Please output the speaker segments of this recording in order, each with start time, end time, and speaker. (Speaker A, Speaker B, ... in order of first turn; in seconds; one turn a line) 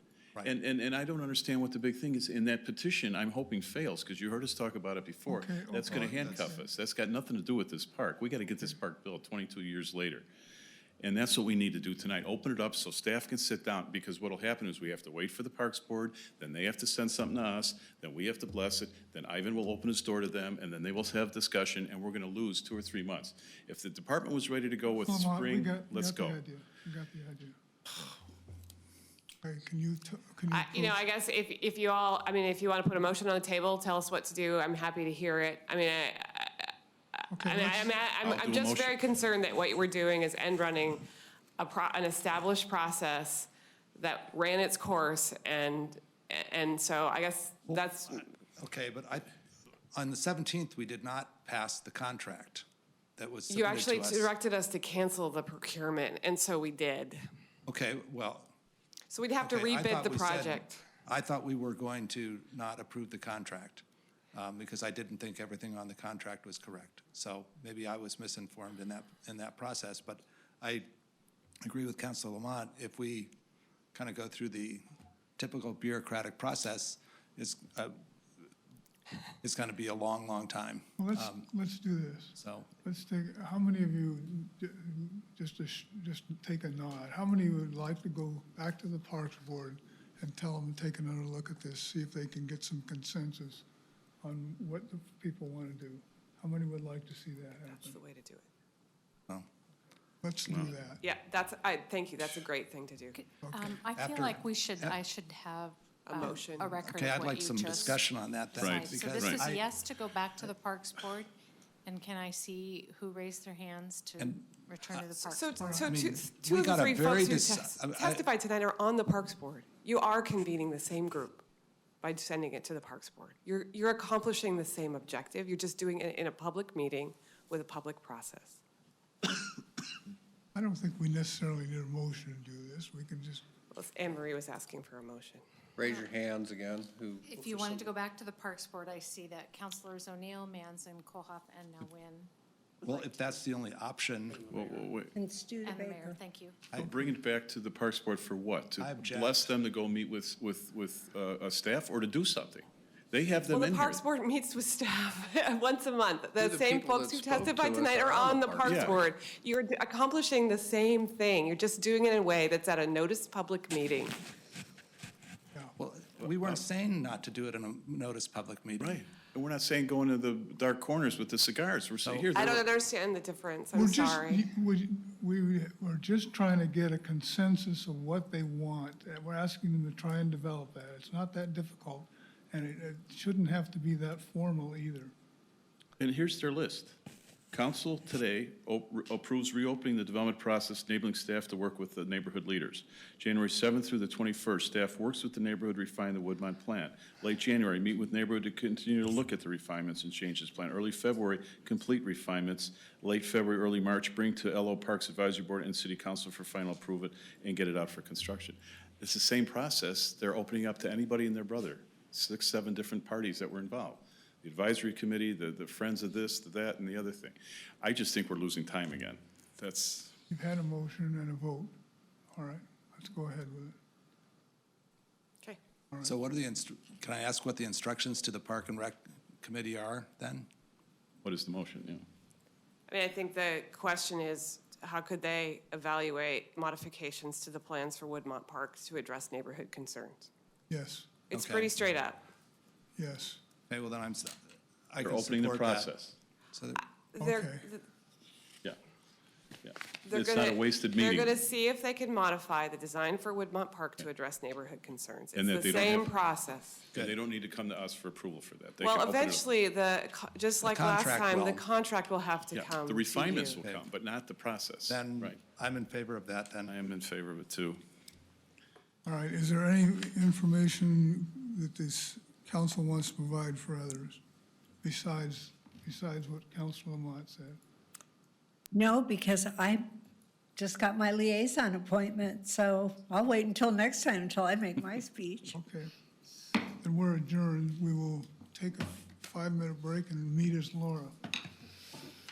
Speaker A: 0.4-10.3
Speaker B: 5.3-6.7
Speaker C: 5.9-6.6
Speaker A: 11.0-26.4
Speaker B: 25.0-27.6
Speaker B: 29.4-31.0
Speaker D: 30.5-36.7
Speaker B: 37.3-38.0
Speaker D: 37.4-41.0
Speaker A: 38.2-39.0
Speaker D: 41.6-48.3
Speaker C: 47.7-49.3
Speaker C: 49.9-52.6
Speaker C: 53.2-54.3
Speaker D: 53.5-57.2
Speaker C: 57.7-58.5
Speaker D: 59.1-60.8
Speaker C: 59.4-70.9
Speaker C: 71.6-73.3
Speaker C: 73.9-74.8
Speaker C: 75.4-78.0
Speaker C: 79.4-81.5
Speaker B: 81.0-93.7
Speaker C: 82.4-82.7
Speaker B: 94.2-98.0
Speaker D: 97.7-98.5
Speaker B: 100.2-101.0
Speaker A: 100.5-100.8
Speaker D: 101.0-103.2
Speaker E: 103.1-111.3
Speaker B: 103.4-103.8
Speaker C: 104.0-105.0
Speaker D: 106.1-106.8
Speaker C: 106.8-109.7
Speaker A: 108.6-109.4
Speaker E: 111.8-115.8
Speaker C: 114.2-115.0
Speaker D: 115.2-121.4
Speaker B: 115.6-115.9
Speaker C: 115.8-118.3
Speaker D: 122.0-128.6
Speaker B: 130.5-133.4
Speaker D: 133.7-135.4
Speaker F: 135.8-137.9
Speaker E: 137.3-142.3
Speaker C: 142.8-144.4
Speaker A: 144.5-145.1
Speaker F: 144.6-144.9
Speaker G: 145.1-146.2
Speaker E: 145.6-146.6
Speaker C: 146.7-147.1
Speaker A: 146.8-154.0
Speaker C: 148.8-149.5
Speaker D: 153.5-164.2
Speaker F: 156.4-159.1
Speaker A: 158.6-159.0
Speaker C: 165.8-169.0
Speaker A: 168.8-172.6
Speaker C: 172.1-172.3
Speaker D: 172.3-174.4
Speaker B: 173.7-185.1
Speaker A: 186.0-187.0
Speaker A: 187.5-220.2
Speaker B: 220.3-221.7
Speaker B: 222.3-223.8
Speaker C: 226.0-230.5
Speaker A: 231.2-232.0
Speaker D: 232.9-240.3
Speaker B: 240.7-241.1
Speaker D: 241.3-242.2
Speaker C: 241.3-241.7
Speaker B: 243.0-243.4
Speaker C: 243.7-244.4
Speaker C: 244.9-245.9
Speaker A: 245.0-246.1
Speaker C: 246.5-246.8
Speaker D: 247.1-247.9
Speaker B: 247.2-247.7
Speaker A: 249.6-251.3
Speaker D: 250.0-256.8
Speaker A: 255.3-256.1
Speaker A: 256.9-259.5
Speaker D: 258.8-263.6
Speaker C: 260.6-261.6
Speaker A: 262.5-265.4
Speaker C: 264.9-266.8
Speaker A: 266.7-267.8
Speaker B: 269.1-274.2
Speaker B: 274.8-277.6
Speaker G: 278.7-279.9
Speaker G: 280.6-285.6
Speaker B: 285.5-285.9
Speaker B: 286.8-291.2